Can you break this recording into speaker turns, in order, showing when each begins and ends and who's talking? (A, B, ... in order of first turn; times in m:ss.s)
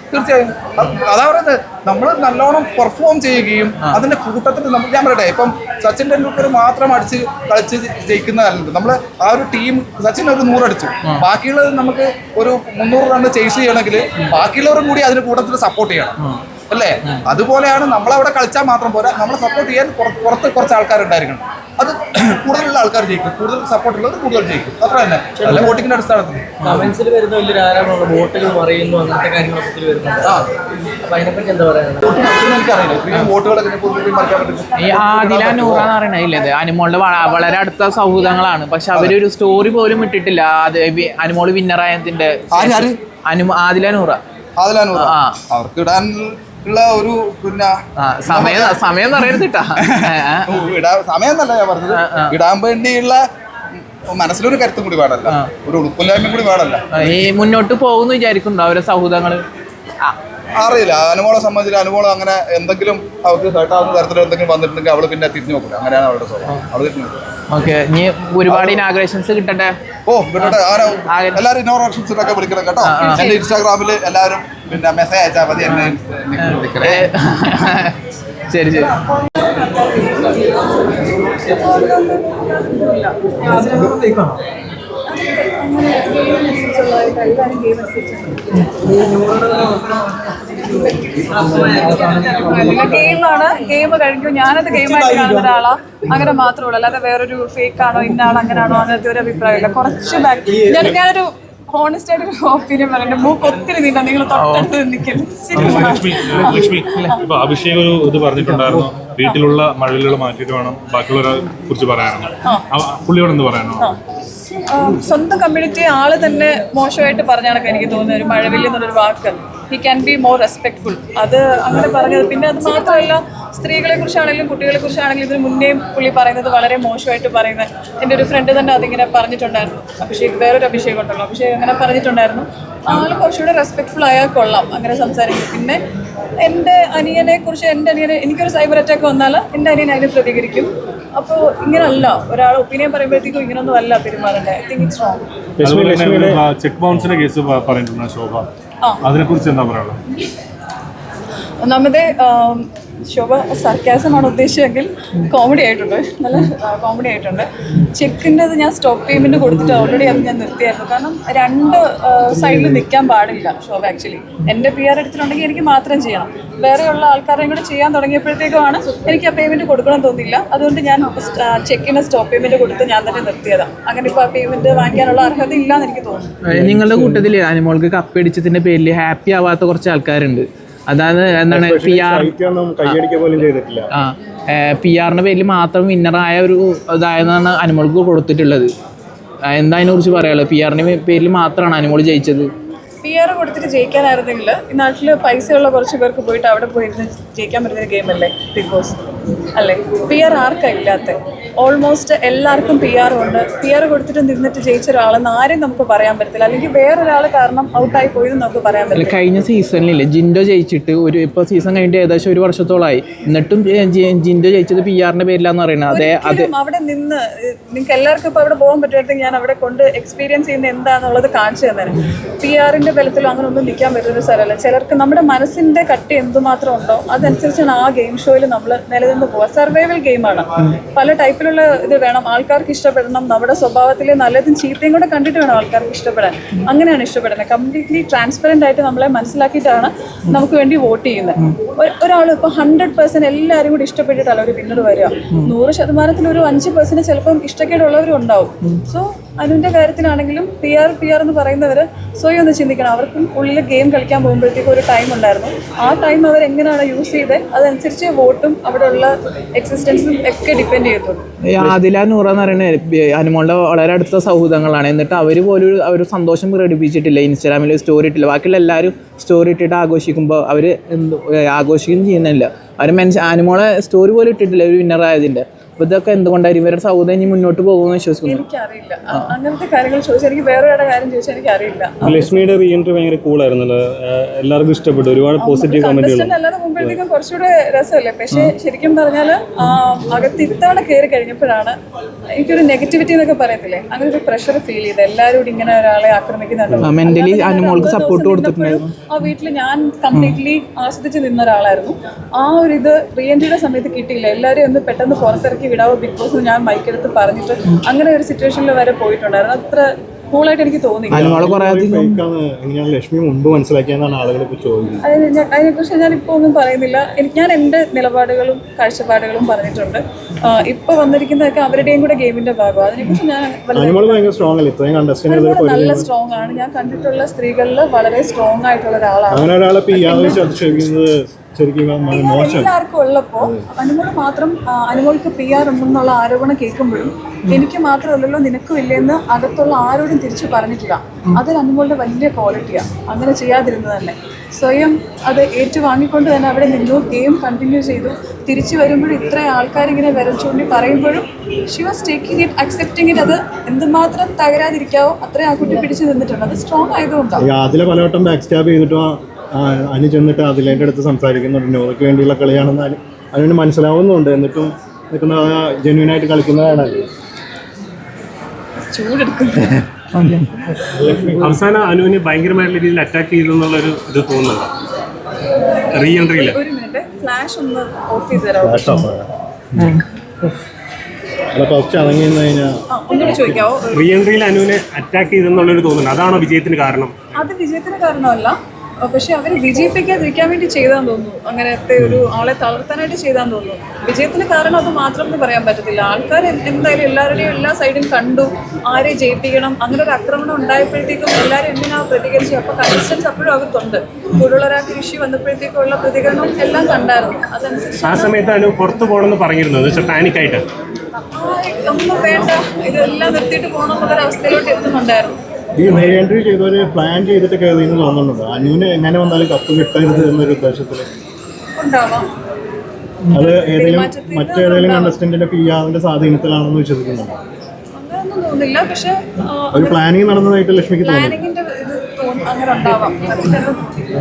0:00.1-0:16.2 A
0:16.7-0:26.6 A
0:25.4-0:25.8 B
0:26.6-0:26.9 C
0:26.6-0:30.3 B
0:31.1-0:32.0 B
0:32.0-0:35.9 A
0:34.8-0:44.2 C
0:42.5-0:43.0 A
0:44.6-0:47.7 A
0:44.9-0:45.4 C
0:48.0-0:50.5 C
0:48.3-0:53.2 A
0:51.9-0:52.3 C
0:54.1-0:57.2 A
0:56.9-0:59.4 C
1:00.6-1:07.2 A
1:07.5-1:09.7 C
1:08.5-1:08.8 A
1:10.1-1:17.6 A
1:11.1-1:11.4 C
1:12.8-1:13.4 C
1:16.4-1:18.0 C
1:18.5-1:18.9 C
1:19.8-1:20.4 D
1:21.5-1:23.9 D
1:23.4-1:24.3 B
1:25.1-1:28.4 D
1:28.9-1:29.8 B
1:31.3-1:33.2 B
1:32.3-1:47.2 D
1:34.8-1:35.4 B
1:44.3-1:44.7 C
1:45.5-1:53.9 E
1:45.5-1:46.0 C
1:54.7-2:15.8 D
2:16.4-2:25.2 D
2:25.6-2:28.5 E
2:25.6-2:26.4 F
2:29.0-2:30.0 E
2:31.6-2:56.3 D
2:56.4-3:02.3 C
2:56.6-2:57.2 F
3:01.5-3:03.9 F
3:03.9-3:08.7 C
3:09.5-3:12.5 C
3:13.0-3:19.0 D
3:19.6-3:29.2 D
3:28.9-3:36.5 C
3:35.9-4:21.2 D
4:21.4-4:38.4 C
4:38.2-4:42.4 D
4:42.0-4:47.0 E
4:45.4-4:51.8 D
4:52.4-5:11.4 D
4:56.8-4:58.9 C
5:11.1-5:12.2 C
5:11.1-5:15.0 F
5:15.0-5:24.2 D
5:23.7-5:26.1 F
5:25.3-5:30.6 D
5:29.3-5:32.7 F
5:32.1-5:57.4 D
5:33.4-5:33.6 F
5:57.4-6:07.1 F
6:08.9-6:09.8 D
6:10.1-6:10.4 C
6:11.1-6:14.7 E
6:15.9-6:16.6 E
6:16.0-6:19.0 D
6:18.6-6:19.3 F
6:21.5-6:23.6 F
6:22.9-6:24.1 D
6:23.9-6:27.3 E
6:27.3-6:48.6 D
6:48.0-6:50.6 E
6:51.4-6:55.4 D
6:55.8-7:01.1 F
7:01.8-7:02.3 D
7:03.3-7:07.4 F
7:03.3-7:05.2 D
7:08.0-7:10.0 D
7:09.7-7:11.4 F
7:11.0-7:14.0 D